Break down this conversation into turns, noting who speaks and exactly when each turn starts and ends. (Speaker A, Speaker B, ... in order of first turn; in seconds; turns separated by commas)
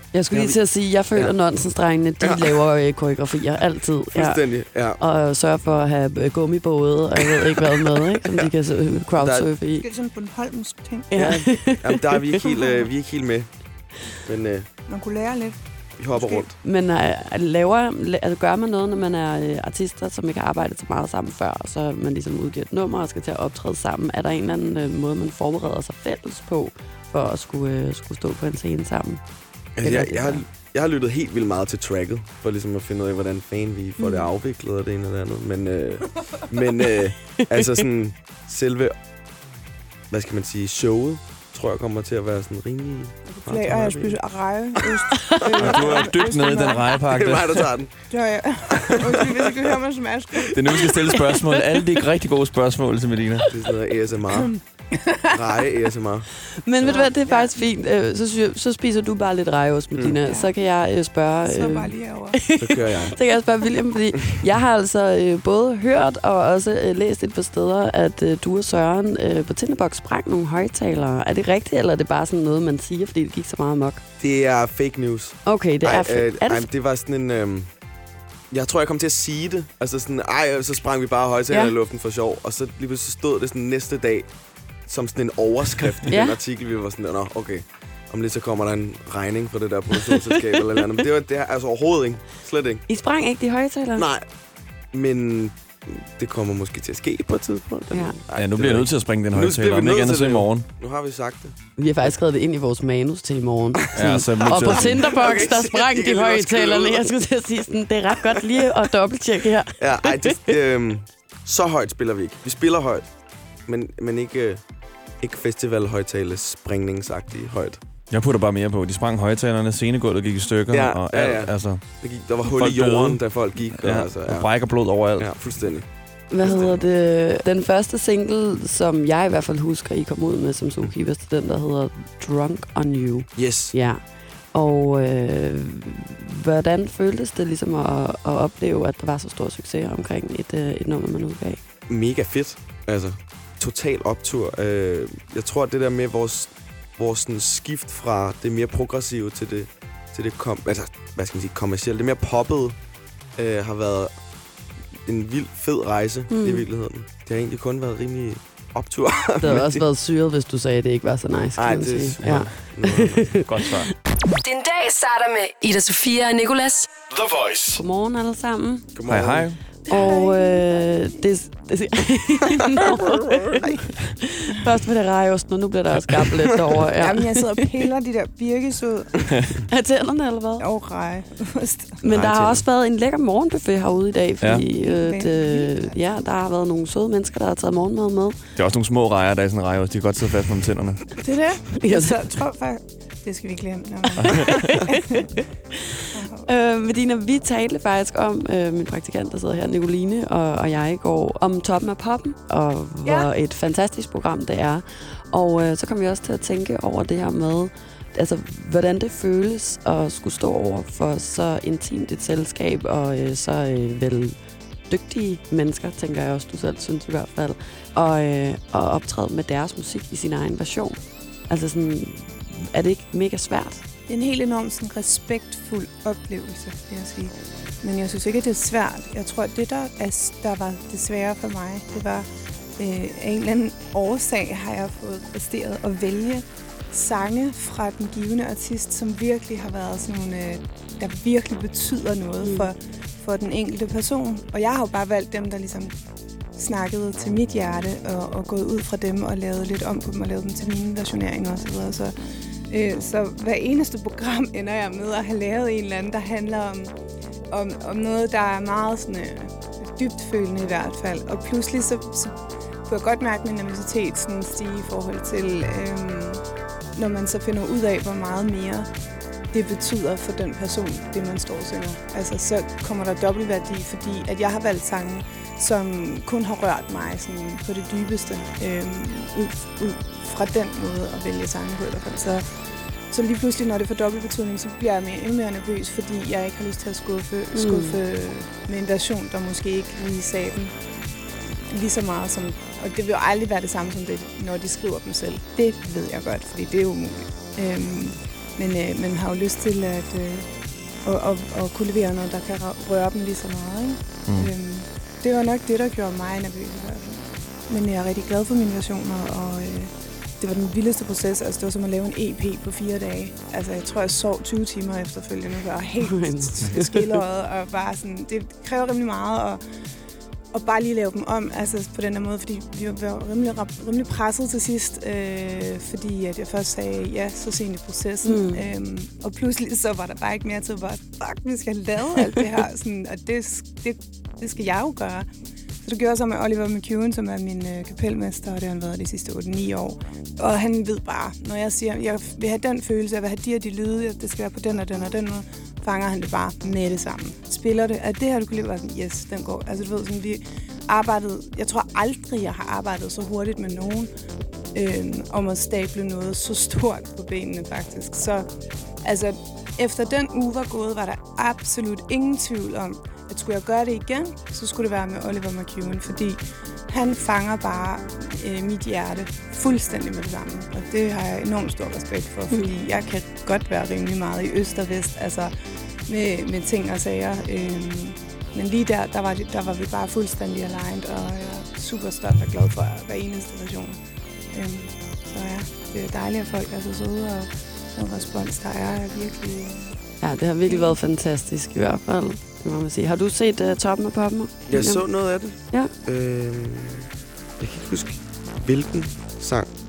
Speaker A: 0.1-4.4, Speaker B: 0.3-0.6, Speaker B: 2.2-2.6, Speaker B: 4.1-5.0, Speaker A: 5.0-9.9, Speaker B: 7.4-8.5, Speaker B: 9.2-9.5, Speaker C: 9.8-11.1, Speaker A: 11.1-12.4, Speaker B: 11.1-13.5, Speaker B: 14.2-14.7, Speaker C: 14.9-15.6, Speaker B: 16.0-16.6, Speaker C: 16.1-16.5, Speaker A: 16.6-29.2, Speaker B: 29.8-39.0, Speaker A: 29.8-30.4, Speaker B: 40.1-44.2, Speaker C: 43.3-47.0, Speaker A: 45.1-45.5, Speaker B: 45.4-45.8, Speaker D: 45.6-47.7, Speaker B: 47.1-47.9, Speaker C: 48.1-50.8, Speaker B: 48.8-49.5, Speaker D: 50.5-53.5, Speaker A: 51.1-52.0, Speaker B: 53.5-54.5, Speaker C: 54.4-55.4, Speaker B: 55.3-56.3, Speaker A: 56.6-74.0, Speaker C: 56.8-57.5, Speaker C: 60.2-60.5, Speaker C: 61.4-62.4, Speaker B: 62.6-63.2, Speaker B: 74.2-77.7, Speaker A: 75.5-76.7, Speaker B: 78.5-84.3, Speaker B: 84.9-92.8, Speaker A: 86.1-86.4, Speaker A: 89.9-91.0, Speaker A: 92.9-94.1, Speaker B: 94.0-94.3, Speaker B: 94.9-101.6, Speaker A: 97.9-98.2, Speaker D: 98.3-100.7, Speaker A: 101.8-110.5, Speaker D: 103.9-105.1, Speaker B: 103.9-107.1, Speaker B: 108.3-108.6, Speaker B: 109.8-113.1, Speaker B: 113.7-114.6, Speaker B: 115.2-117.8, Speaker D: 118.1-121.8, Speaker B: 120.7-124.5, Speaker D: 122.4-125.3, Speaker B: 125.2-125.9, Speaker A: 126.3-134.0, Speaker B: 126.4-126.9, Speaker B: 133.4-133.7, Speaker A: 134.5-141.6, Speaker B: 141.9-152.8, Speaker B: 153.4-154.1, Speaker B: 155.1-159.8, Speaker A: 156.3-156.7, Speaker A: 159.4-163.7, Speaker B: 161.6-163.4, Speaker D: 162.2-162.5, Speaker D: 163.5-163.9, Speaker E: 164.4-167.0, Speaker B: 167.1-167.8, Speaker A: 167.8-168.9, Speaker B: 168.9-169.5, Speaker D: 169.1-169.6, Speaker C: 169.9-171.1, Speaker A: 169.9-177.6, Speaker B: 173.3-173.8, Speaker C: 177.0-179.3, Speaker A: 179.7-180.7, Speaker C: 180.6-182.0, Speaker A: 182.0-188.4, Speaker D: 182.1-182.6, Speaker D: 184.4-184.7, Speaker C: 184.7-186.0, Speaker D: 188.6-191.1, Speaker C: 191.2-195.3, Speaker A: 191.8-192.2, Speaker D: 194.2-194.7, Speaker A: 194.2-195.4, Speaker A: 195.9-214.4, Speaker C: 196.1-196.5, Speaker A: 214.9-223.8, Speaker C: 224.1-245.9, Speaker A: 242.4-242.7, Speaker C: 246.6-252.2, Speaker C: 252.7-256.9, Speaker C: 257.5-262.3, Speaker C: 262.9-266.4, Speaker C: 266.9-268.9, Speaker C: 269.5-282.5, Speaker C: 283.1-290.7, Speaker A: 287.5-288.0, Speaker C: 291.7-300.5, Speaker C: 301.1-319.6, Speaker A: 316.0-317.2, Speaker C: 320.5-335.3, Speaker A: 328.2-328.6, Speaker C: 335.8-354.1, Speaker C: 354.8-358.5, Speaker C: 359.0-375.5, Speaker C: 376.1-384.0, Speaker C: 384.5-390.0, Speaker A: 390.2-395.1, Speaker C: 390.7-391.0, Speaker B: 394.7-397.1, Speaker B: 397.6-399.7